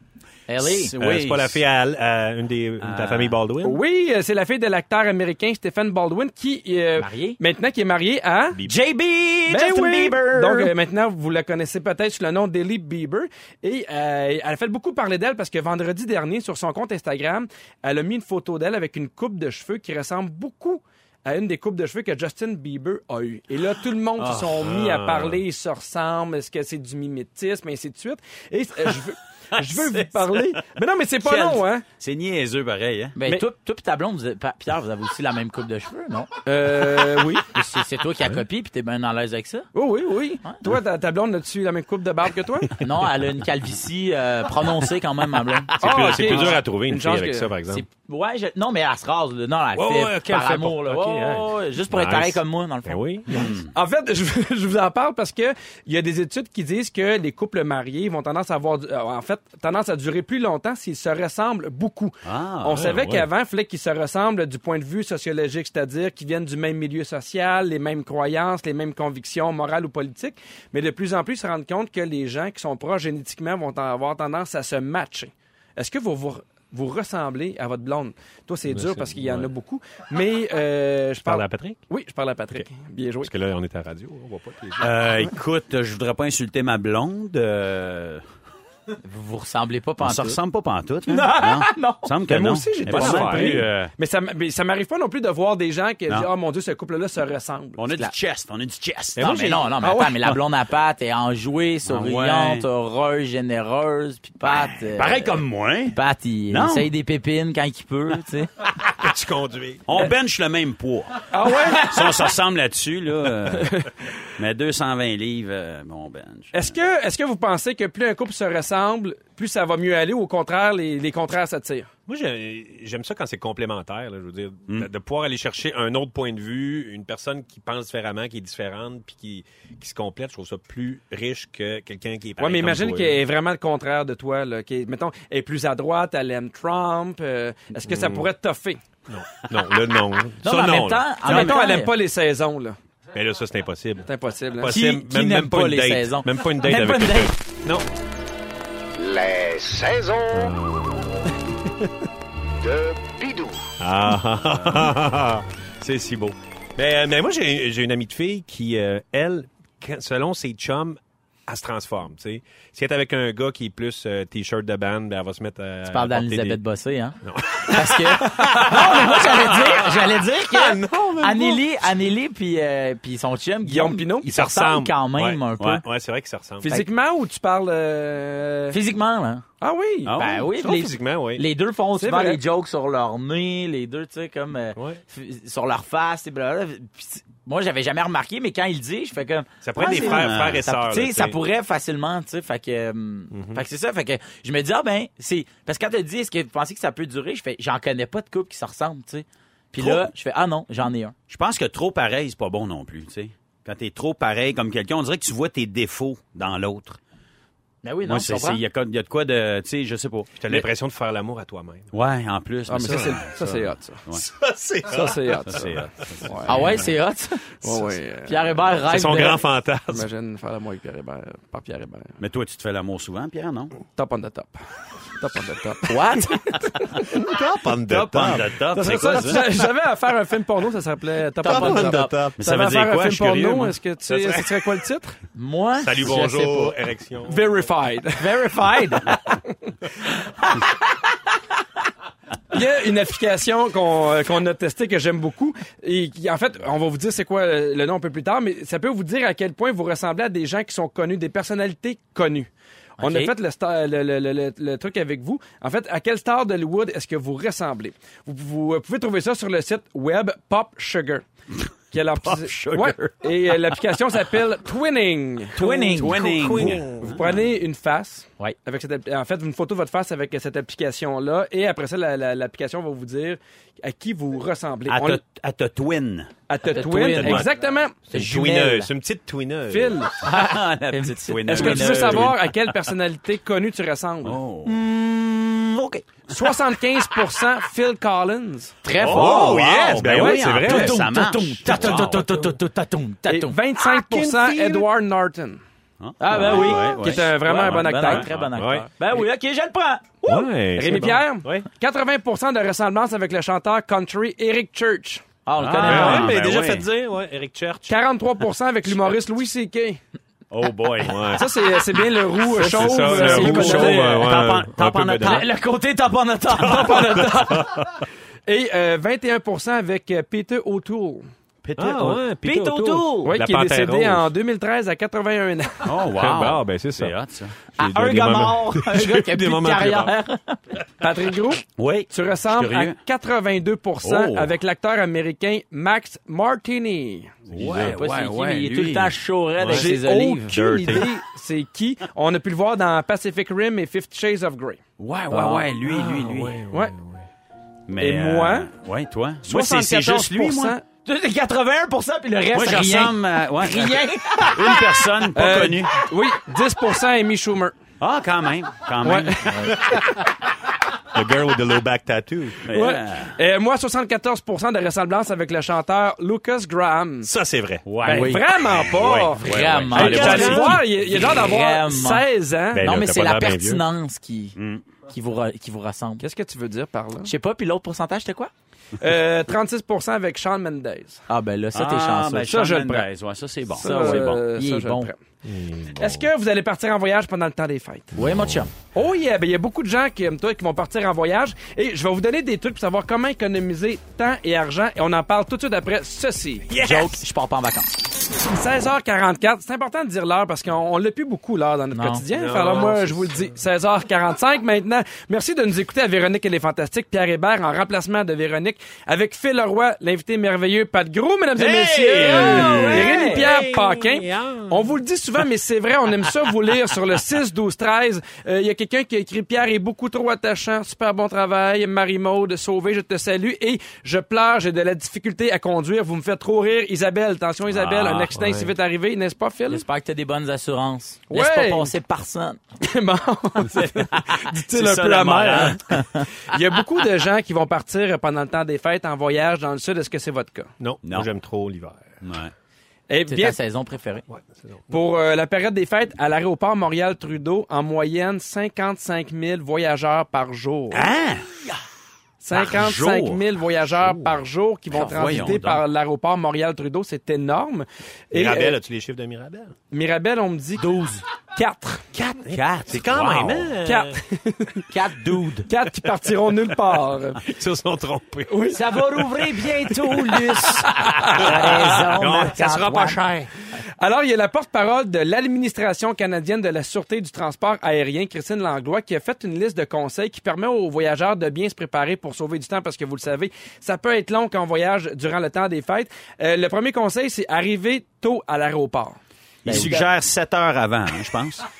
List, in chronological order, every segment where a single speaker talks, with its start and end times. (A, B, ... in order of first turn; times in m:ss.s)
0:00.5-0:01.0 A
0:00.8-0:01.6 B
0:01.0-0:03.8 C
0:02.8-0:03.3 B
0:03.6-0:08.6 D
0:07.0-0:07.4 A
0:08.6-0:10.7 A
0:09.5-0:31.8 D
0:24.6-0:25.4 C
0:31.2-0:33.1 B
0:33.2-0:36.3 A
0:36.4-0:37.5 D
0:36.8-0:39.7 A
0:39.7-0:42.7 D
0:42.8-0:46.6 A
0:45.8-0:47.8 C
0:45.8-0:47.5 D
0:47.7-0:53.4 A
0:49.7-0:53.3 C
0:53.5-1:23.3 D
1:02.2-1:03.0 B
1:02.7-1:03.2 C
1:18.7-1:19.5 C
1:21.2-1:21.8 C
1:23.2-1:25.0 C
1:24.8-1:28.2 B
1:29.0-1:30.4 A
1:30.0-1:33.9 B
1:31.0-1:32.1 A
1:32.3-1:37.8 D
1:32.9-1:33.7 C
1:37.8-1:39.2 B
1:39.2-1:40.0 C
1:39.2-1:45.4 A
1:41.8-1:42.6 B
1:44.4-1:46.0 B
1:45.9-1:48.5 A
1:46.5-1:46.9 B
1:48.8-1:49.9 C
1:49.9-1:53.8 B
1:51.3-1:52.0 D
1:53.5-1:53.9 D
1:54.4-1:56.7 B
1:56.5-2:01.9 D
2:02.1-2:13.2 C
2:12.4-2:18.8 D
2:17.9-2:18.3 C
2:19.1-2:21.0 C
2:20.4-2:21.9 A
2:21.2-2:22.8 D
2:21.2-2:21.6 B
2:23.1-2:27.8 C
2:24.0-2:24.7 D
2:24.7-2:27.3 A
2:29.0-2:30.3 E
2:30.3-2:31.9 C
2:32.7-2:33.5 E
2:33.8-2:35.4 C
2:35.8-2:36.3 B
2:36.2-2:46.6 C
2:45.8-2:55.8 A
2:47.2-2:51.6 C
2:53.6-2:54.3 D
2:54.3-2:56.8 C
2:56.6-2:58.8 D
2:58.7-2:59.4 A
2:59.6-3:00.1 D
3:00.0-3:00.5 B
3:00.2-3:21.1 A
3:00.5-3:01.4 C
3:02.0-3:02.4 D
3:04.8-3:05.0 C
3:09.6-3:11.4 C
3:09.9-3:10.6 B
3:13.3-3:13.6 C
3:19.8-3:20.1 B
3:21.3-3:27.0 B
3:27.8-3:28.6 A
3:28.0-3:30.6 B
3:30.4-3:31.9 C
3:31.9-3:34.3 B
3:32.7-3:34.0 D
3:34.1-3:35.8 C
3:34.9-3:36.6 D
3:35.5-3:36.9 B
3:36.5-3:37.7 A
3:37.6-3:38.4 D
3:38.2-3:39.4 A
3:38.8-3:40.1 C
3:39.9-3:42.1 D
3:42.2-3:43.7 B
3:44.0-3:44.6 D
3:45.2-3:47.0 D
3:45.9-3:46.6 A
3:47.0-3:49.4 C
3:47.9-3:49.4 B
3:48.2-3:55.1 D
3:51.4-3:52.2 A
3:51.4-3:52.4 C
3:52.4-3:53.7 B
3:54.1-3:54.5 C
3:55.3-3:56.8 A
3:55.8-3:57.5 C
3:57.2-3:59.2 D
3:58.2-3:59.2 A
4:02.5-4:12.5 D
4:13.0-4:13.3 A
4:13.0-4:21.2 D
4:21.9-4:25.6 D
4:22.2-4:23.1 B
4:25.5-4:26.6 A
4:25.6-4:27.3 C
4:25.8-4:26.9 B
4:26.6-4:35.2 D
4:34.9-4:36.3 B
4:36.5-4:37.9 D
4:36.7-4:37.5 A
4:37.0-4:37.5 B
4:38.1-4:40.2 C
4:38.1-4:38.9 A
4:39.7-4:40.1 D
4:40.2-4:42.3 A
4:40.2-4:42.9 B
4:41.5-4:44.4 D
4:44.2-4:44.8 B
4:44.6-4:46.0 A
4:46.3-4:48.8 D
4:48.8-4:53.6 A
4:49.0-4:52.4 B
4:49.1-4:51.0 C
4:50.2-4:50.9 D
4:51.8-4:52.2 C
4:53.3-4:55.6 D
4:53.8-4:54.9 C
4:56.0-4:57.3 B
4:56.2-5:01.1 A
4:56.9-4:58.3 D
4:57.6-4:58.9 C
4:58.1-4:58.5 B
5:00.2-5:01.7 C
5:00.8-5:05.2 D
5:05.4-5:06.4 A
5:05.6-5:06.9 B
5:05.8-5:07.9 C
5:07.9-5:10.0 D
5:10.5-5:11.4 B
5:11.0-5:11.4 C
5:11.3-5:14.2 D
5:12.6-5:15.5 C
5:12.7-5:14.4 A
5:13.1-5:15.4 B
5:15.2-5:17.1 A
5:16.5-5:18.0 C
5:16.6-5:17.8 D
5:18.5-5:21.3 D
5:21.6-5:22.2 B
5:21.6-5:23.4 A
5:21.8-5:24.3 C
5:23.2-5:25.9 D
5:25.8-5:27.5 B
5:26.1-5:27.2 C
5:27.8-5:30.1 C
5:27.8-5:30.6 A
5:31.0-5:37.3 D
5:31.8-5:33.0 B
5:34.0-5:34.6 B
5:37.4-5:39.2 B
5:37.6-5:41.0 A
5:37.6-5:37.9 C
5:39.6-5:39.9 C
5:39.7-5:44.8 D
5:45.0-5:46.6 B
5:45.3-5:45.6 A
5:45.8-5:47.2 C
5:46.7-5:47.0 D
5:47.9-5:50.8 B
5:48.0-5:48.7 D
5:49.4-5:50.8 D
5:51.0-5:55.0 A
5:52.5-5:56.1 B
5:55.3-5:57.8 D
5:58.0-5:59.7 B
5:59.0-6:00.0 D
5:59.8-6:00.3 C
6:01.1-6:02.6 C
6:02.6-6:03.4 B
6:02.7-6:07.3 D
6:07.2-6:08.2 C
6:07.8-6:10.8 B
6:08.0-6:08.4 A
6:08.0-6:12.9 D
6:08.7-6:10.8 C
6:09.4-6:12.2 A
6:12.7-6:13.8 C
6:12.8-6:14.6 A
6:14.6-6:14.8 B
6:15.1-6:16.2 A
6:16.2-6:17.3 D
6:17.2-6:18.5 A
6:19.0-6:21.2 D
6:21.3-6:22.6 A
6:21.7-6:24.3 B
6:22.4-6:23.1 D
6:23.7-6:25.2 D
6:23.8-6:25.1 A
6:25.4-6:26.3 C
6:26.0-6:28.2 D
6:28.1-6:28.7 A
6:28.9-6:36.7 D
6:36.7-6:37.2 C
6:36.8-6:37.9 A
6:38.4-7:09.8 D
6:41.9-6:42.2 A
6:42.3-6:43.5 C
6:51.9-6:53.5 A
6:52.0-6:54.9 C
6:52.5-6:53.0 B
7:07.8-7:08.2 B
7:08.0-7:08.7 C
7:09.7-7:12.6 A
7:11.3-7:11.9 D
7:12.8-7:20.7 D
7:14.7-7:15.8 B
7:15.9-7:16.2 A
7:20.8-7:22.0 C
7:21.0-7:21.3 B
7:22.2-7:22.5 B
7:23.1-7:23.6 D
7:23.3-7:24.2 A
7:24.3-7:25.0 C
7:24.9-7:31.1 D
7:30.9-7:31.5 B
7:32.4-7:38.8 D
7:32.5-7:33.4 B
7:34.0-7:34.3 C
7:34.9-7:35.8 B
7:34.9-7:35.4 A
7:38.3-7:39.7 C
7:39.9-7:40.9 D
7:40.8-7:41.2 A
7:41.6-7:42.0 D
7:42.1-7:44.2 C
7:42.5-7:43.7 B
7:43.8-7:44.9 D
7:44.9-7:45.7 A
7:45.7-7:47.4 D
7:47.4-7:48.6 C
7:48.5-7:48.8 D
7:48.7-7:53.2 A
7:50.0-7:53.5 C
7:50.9-7:51.4 D
7:54.0-8:10.0 D
8:09.6-8:10.0 A
8:09.6-8:11.6 B